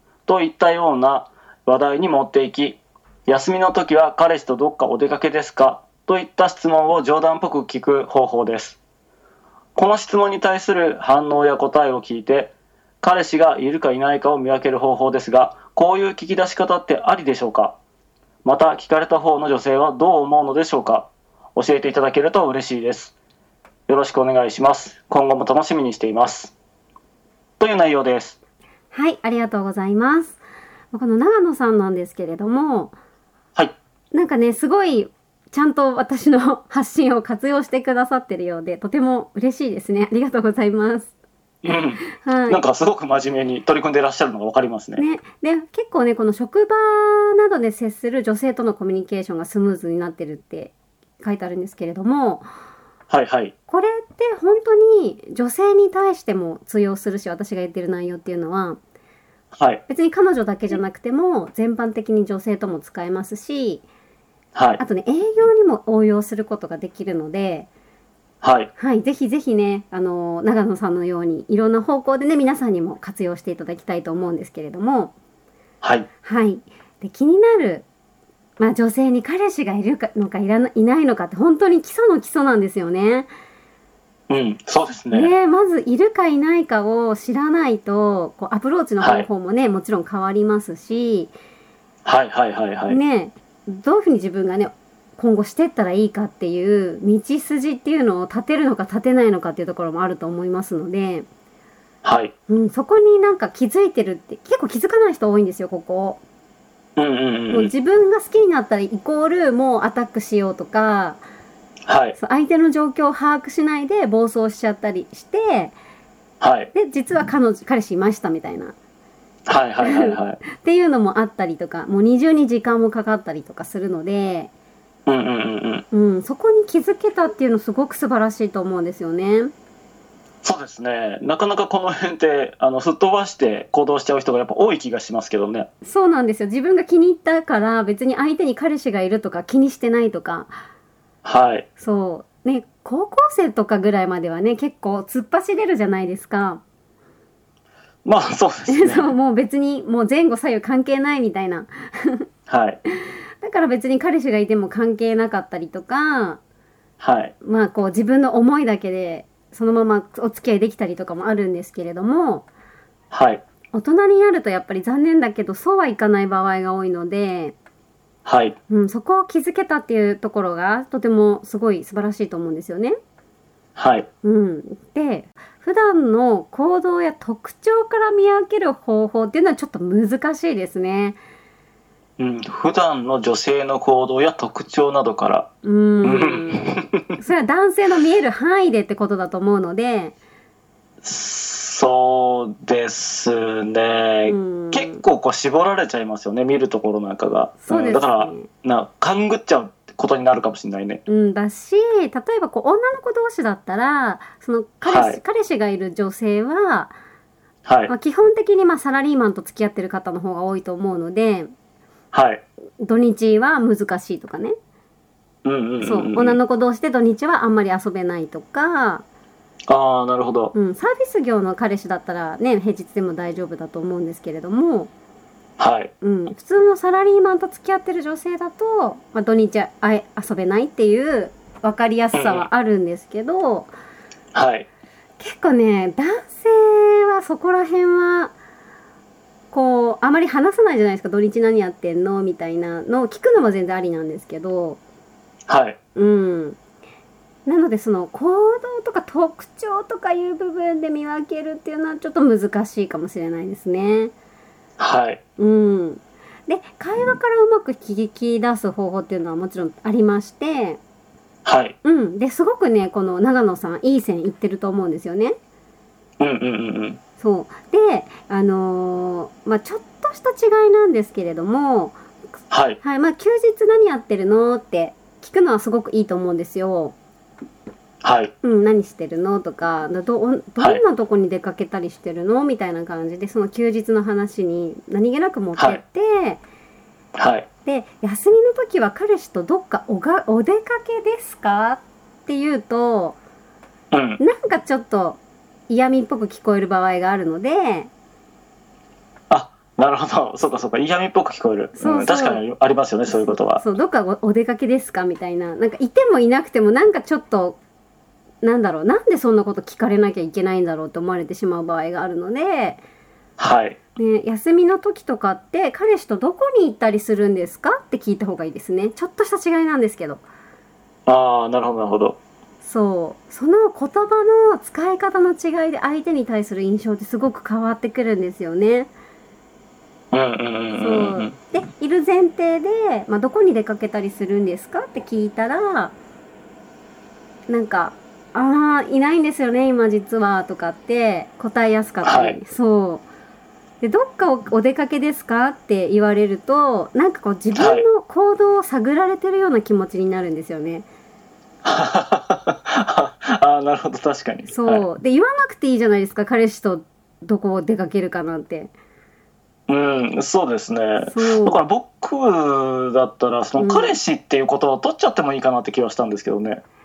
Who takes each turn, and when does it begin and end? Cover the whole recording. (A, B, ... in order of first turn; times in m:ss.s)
0:00.3-0:08.8 A
0:09.7-0:17.8 A
0:18.4-0:23.1 A
0:23.9-0:26.5 A
0:27.6-0:28.4 A
0:28.9-0:30.4 B
0:30.9-0:33.0 B
0:34.1-0:41.1 B
0:41.6-0:45.0 A
0:42.2-0:42.6 B
0:45.0-0:52.5 B
0:53.1-0:53.5 A
0:53.7-0:58.8 B
0:59.5-0:59.8 A
0:59.9-1:03.8 B
1:04.5-1:04.8 A
1:04.8-1:07.7 B
1:08.4-1:08.7 A
1:08.8-1:15.1 B
1:15.8-1:16.1 A
1:16.2-1:17.8 B
1:18.6-1:23.3 B
1:24.3-1:25.3 A
1:25.1-1:31.3 B
1:29.0-1:29.3 A
1:32.0-1:33.0 A
1:32.9-1:41.3 B
1:42.0-1:42.3 A
1:42.5-1:46.2 B
1:47.0-1:47.7 A
1:47.5-1:51.2 B
1:51.8-1:52.2 A
1:52.2-1:55.8 B
1:56.4-1:56.7 A
1:56.7-1:58.7 B
1:59.5-2:00.4 A
1:59.8-2:04.5 B
2:05.0-2:05.8 A
2:05.9-2:09.5 B
2:10.4-2:15.7 A
2:15.8-2:20.6 B
2:21.2-2:21.6 A
2:21.8-2:26.6 B
2:28.0-2:29.1 A
2:28.7-2:32.3 B
2:32.5-2:32.8 A
2:32.9-2:36.4 B
2:37.0-2:37.3 A
2:37.4-2:42.4 B
2:43.1-2:43.4 A
2:43.7-2:47.5 B
2:48.2-2:48.6 A
2:48.7-2:53.0 B
2:53.8-2:54.1 A
2:54.2-3:01.2 B
3:02.2-3:05.5 A
3:05.6-3:10.1 B
3:06.0-3:07.1 A
3:11.0-3:21.0 A
3:14.2-3:15.0 B
3:17.6-3:18.5 B
3:21.1-3:27.0 B
3:24.8-3:25.2 A
3:27.6-3:27.9 A
3:27.9-3:31.5 B
3:32.1-3:32.4 A
3:32.8-3:34.5 B
3:35.4-3:36.4 A
3:35.8-3:39.0 B
3:39.7-3:40.5 A
3:40.5-3:44.9 B
3:45.6-3:45.9 A
3:46.0-3:53.7 B
3:52.1-3:52.4 A
3:54.3-3:54.7 A
3:55.2-3:58.3 B
3:59.5-4:04.8 B
4:05.5-4:05.8 A
4:06.0-4:06.6 B
4:07.4-4:14.1 B
4:14.8-4:15.2 A
4:15.4-4:20.8 B
4:21.4-4:21.7 A
4:21.8-4:25.4 B
4:26.2-4:27.0 A
4:27.2-4:32.0 B
4:32.5-4:32.8 A
4:32.8-4:37.0 B
4:38.0-4:38.3 A
4:38.4-4:46.4 B
4:47.2-4:47.5 A
4:47.6-4:53.2 B
4:53.9-4:54.2 A
4:54.2-4:57.9 B
4:59.3-5:03.6 A
5:01.8-5:02.4 B
5:03.1-5:07.6 B
5:08.4-5:12.8 B
5:13.4-5:13.8 A
5:14.0-5:20.2 B
5:21.0-5:22.2 A
5:22.6-5:28.9 B
5:30.1-5:31.4 A
5:30.8-5:35.9 B
5:37.5-5:43.0 B
5:42.0-5:42.4 A
5:43.8-5:50.9 B
5:47.6-5:47.8 A
5:51.6-5:54.8 A
5:54.5-5:58.7 B
5:59.7-6:06.6 A
6:01.0-6:01.6 B
6:03.6-6:04.0 B